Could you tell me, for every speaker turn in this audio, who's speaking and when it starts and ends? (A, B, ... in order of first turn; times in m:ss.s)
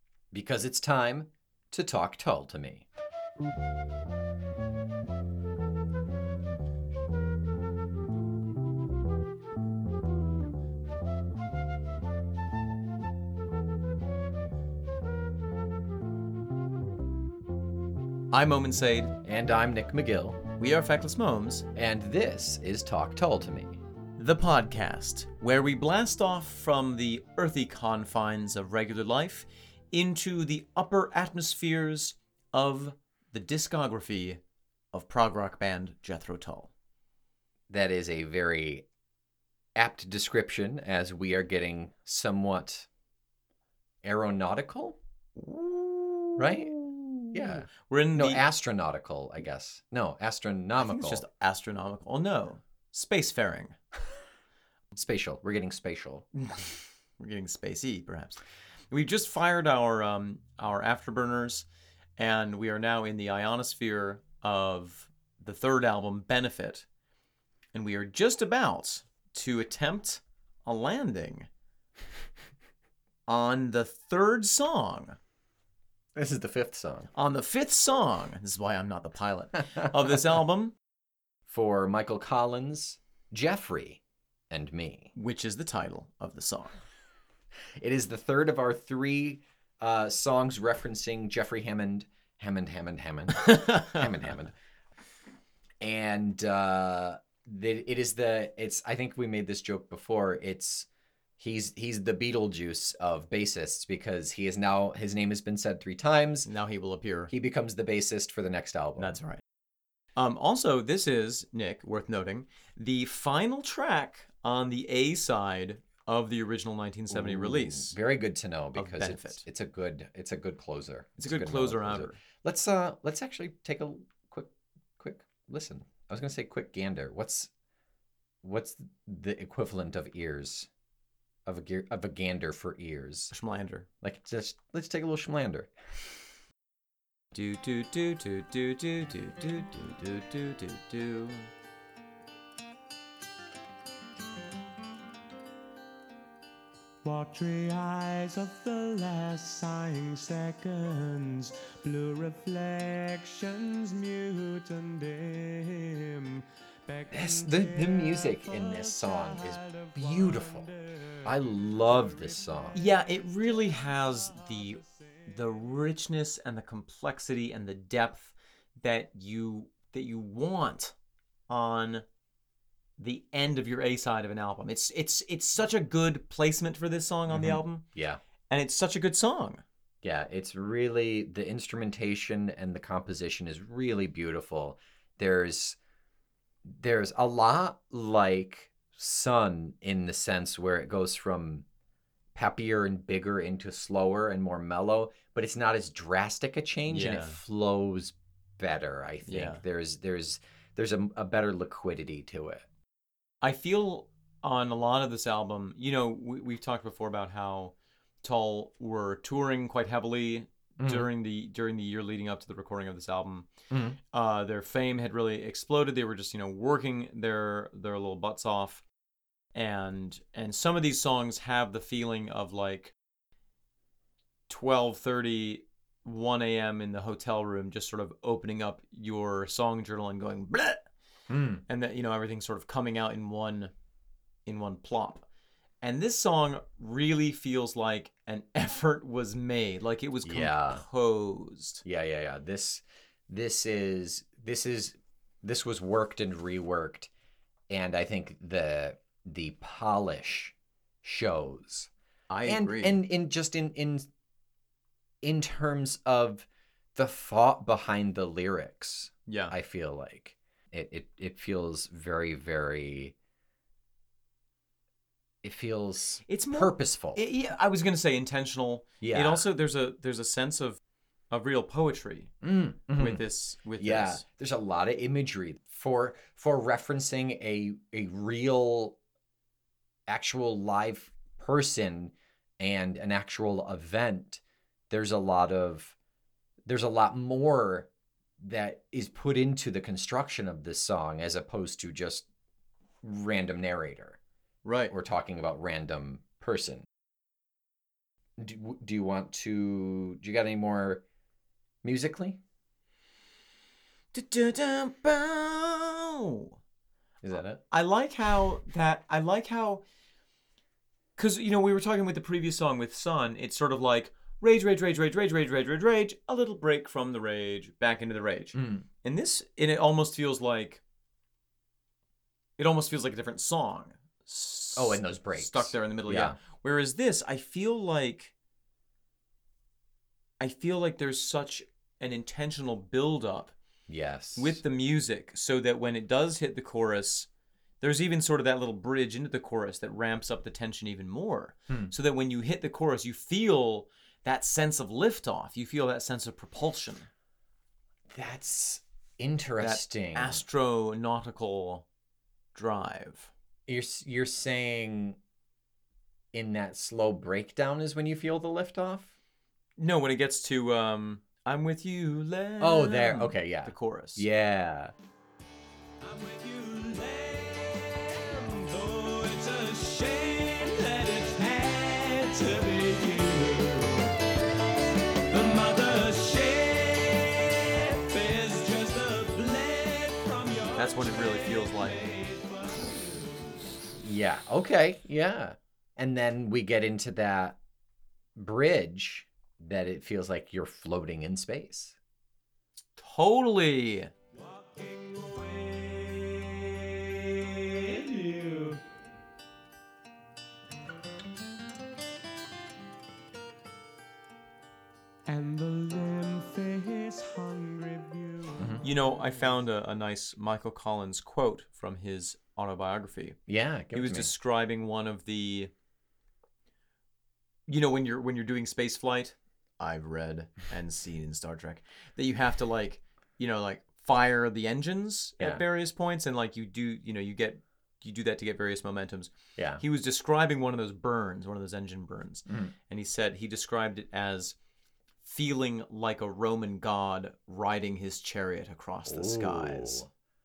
0:00.3-0:02.8 A
0:18.3-0:19.1 B
0:19.2-0:20.4 A
0:20.6-0:21.6 B
0:21.8-0:23.8 A
0:24.2-0:34.4 B
0:34.9-0:36.7 B
0:37.7-0:38.8 A
0:39.8-0:42.9 A
0:44.0-0:45.0 A
0:45.4-0:48.4 B
0:46.4-0:46.7 A
0:47.3-0:51.2 A
0:50.8-0:53.8 B
0:54.9-0:56.3 A
0:56.4-1:01.7 B
1:02.2-1:06.9 B
1:07.7-1:11.5 B
1:13.3-1:15.2 B
1:16.2-1:17.1 A
1:17.1-1:20.8 B
1:21.5-1:25.1 A
1:25.2-1:26.8 B
1:27.8-1:34.5 A
1:33.4-1:34.1 B
1:35.8-1:40.9 A
1:41.4-1:46.5 A
1:46.4-1:47.3 B
1:47.3-1:49.2 A
1:49.0-1:49.4 B
1:50.2-1:58.0 B
1:57.1-2:07.5 A
1:58.8-1:59.4 B
2:01.2-2:02.2 B
2:08.4-2:10.7 A
2:11.5-2:13.3 A
2:13.3-2:13.9 B
2:14.0-2:15.7 A
2:17.3-2:21.5 B
2:27.0-2:42.8 C
2:37.1-2:40.7 A
2:41.2-2:42.8 A
2:42.8-2:51.0 B
2:51.5-2:52.0 B
2:53.0-2:57.8 B
2:57.3-2:58.2 A
2:58.5-2:59.6 B
3:00.0-3:05.8 A
3:06.6-3:11.6 A
3:12.4-3:22.6 A
3:16.9-3:17.4 B
3:19.3-3:19.6 B
3:23.4-3:33.5 B
3:30.8-3:31.1 A
3:33.7-3:34.0 A
3:34.1-3:38.8 B
3:39.5-3:42.9 B
3:44.5-3:50.9 B
3:51.3-3:51.6 A
3:51.7-3:53.7 B
3:54.5-3:55.2 B
3:55.8-4:01.8 B
4:00.2-4:00.8 A
4:01.8-4:07.1 A
4:07.7-4:11.9 A
4:12.3-4:13.0 B
4:12.5-4:14.1 A
4:15.2-4:23.1 A
4:19.3-4:19.5 B
4:25.4-4:27.2 A
4:26.3-4:30.8 B
4:29.0-4:29.5 A
4:31.3-4:32.3 B
4:32.4-4:33.2 A
4:33.0-4:34.2 B
4:33.8-4:39.0 A
4:40.1-4:46.0 A
4:46.7-4:47.9 A
4:48.4-4:52.3 A
4:53.0-4:54.2 A
4:54.6-4:54.9 B
4:54.9-4:56.9 A
4:58.4-5:01.0 A
5:01.8-5:02.4 A
5:04.1-5:06.6 B
5:07.2-5:07.6 A
5:07.7-5:09.8 B
5:11.2-5:20.8 B
5:18.6-5:18.9 A
5:22.6-5:28.3 B
5:24.8-5:26.4 A
5:30.4-5:33.6 B
5:33.9-5:34.6 A
5:34.4-5:37.3 B
5:37.8-5:47.1 B
5:48.1-5:50.4 A
5:49.6-5:51.9 B
5:52.5-5:53.3 B
5:53.7-5:55.2 A
5:56.3-5:59.1 A
5:59.8-6:04.2 B
6:02.6-6:04.9 A
6:06.0-6:14.3 C
6:15.3-6:23.6 C
6:20.8-6:22.1 B
6:24.0-6:27.6 A
6:28.4-6:32.0 A
6:33.0-6:34.1 B
6:34.3-6:38.8 C
6:45.3-6:49.3 C
6:48.6-6:48.8 A
6:48.8-6:53.4 B
6:53.5-6:54.3 A
6:53.9-6:55.7 B
6:57.7-7:14.6 B
7:09.6-7:09.8 A
7:12.5-7:12.7 A
7:15.2-7:20.1 B
7:19.1-7:20.1 A